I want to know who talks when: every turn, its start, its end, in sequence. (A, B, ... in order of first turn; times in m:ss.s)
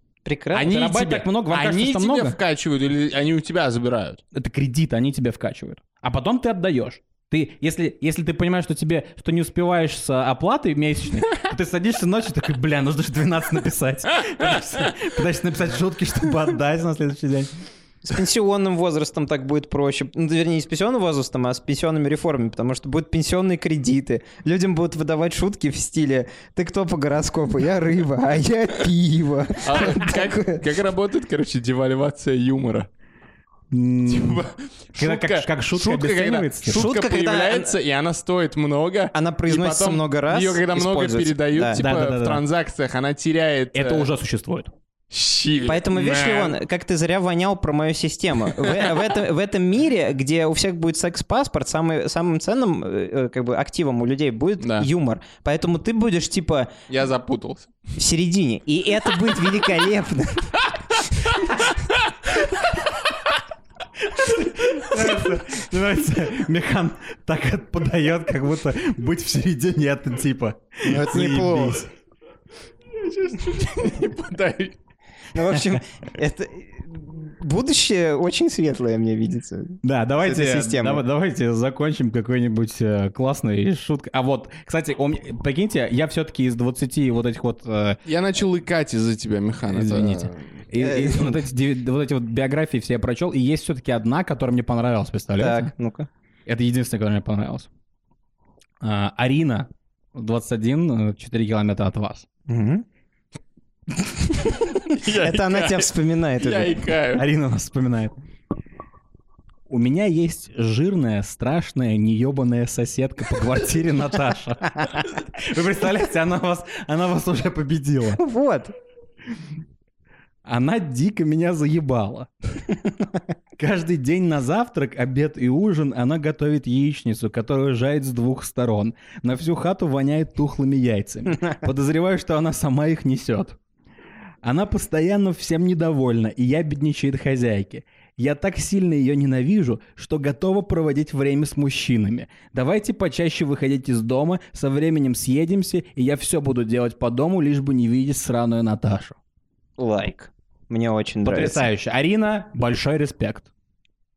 0:00.2-0:00.7 A
0:00.5-0:04.2 B
0:00.7-0:02.4 C
0:04.3-0:17.5 C
0:18.0-0:30.6 A
0:29.6-0:32.9 B
0:33.7-0:34.4 C
0:34.1-0:44.1 B
0:35.0-0:36.9 C
0:36.7-0:37.8 A
0:39.1-0:41.8 A
0:41.7-0:42.4 C
0:43.7-0:44.7 C
0:45.1-0:46.6 B
0:45.7-0:56.7 A
0:48.5-0:49.0 B
0:54.6-0:54.9 B
0:56.9-0:57.8 B
0:58.0-1:00.6 A
1:04.0-1:11.8 C
1:10.8-1:11.9 A
1:13.0-1:14.8 B
1:15.4-1:21.0 A
1:19.8-1:28.0 C
1:20.3-1:20.6 B
1:28.1-1:30.5 B
1:29.7-1:35.7 C
1:30.8-1:31.4 A
1:35.4-1:36.1 A
1:36.5-1:37.7 C
1:38.8-1:42.3 C
1:42.5-1:42.8 A
1:44.8-1:47.2 B
1:44.9-1:46.8 A
1:47.2-1:48.1 C
1:49.7-1:58.2 C
1:58.2-1:58.7 A
2:00.4-2:02.3 C
2:03.6-2:13.6 C
2:14.4-2:29.2 C
2:29.8-2:31.7 A
2:31.2-2:33.5 C